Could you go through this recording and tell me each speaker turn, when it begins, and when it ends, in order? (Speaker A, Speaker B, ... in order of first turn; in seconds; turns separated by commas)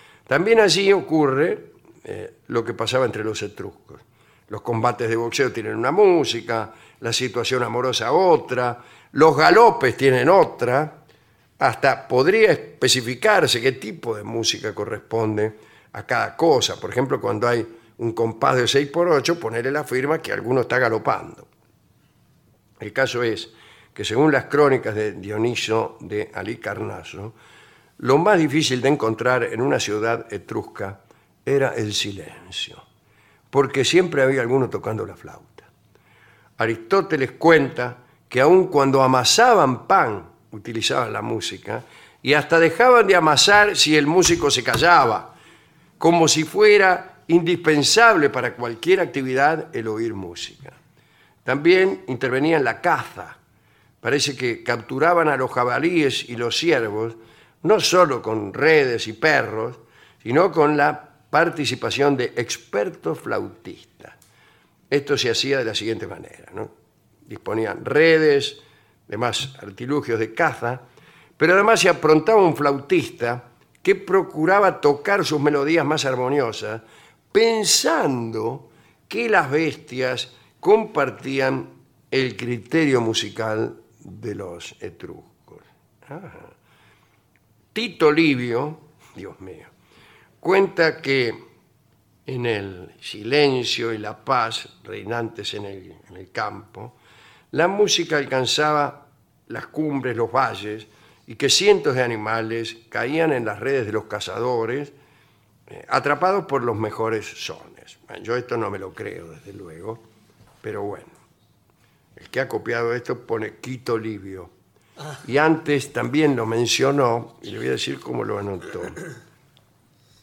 Speaker A: 0.3-11.0, Speaker A: 11.6-21.5, Speaker A: 22.8-27.3, Speaker A: 28.0-32.8, Speaker A: 33.5-35.7, Speaker A: 36.6-45.3, Speaker A: 46.0-50.8, Speaker A: 51.4-53.4, Speaker A: 54.0-64.2, Speaker A: 64.9-66.7, Speaker A: 67.3-70.8, Speaker A: 71.4-86.5, Speaker A: 87.7-89.7, Speaker A: 90.4-91.4, Speaker A: 92.2-97.0, Speaker A: 97.5-104.9, Speaker A: 105.7-110.0, Speaker A: 110.6-111.1, Speaker A: 112.2-114.5, Speaker A: 115.2-119.0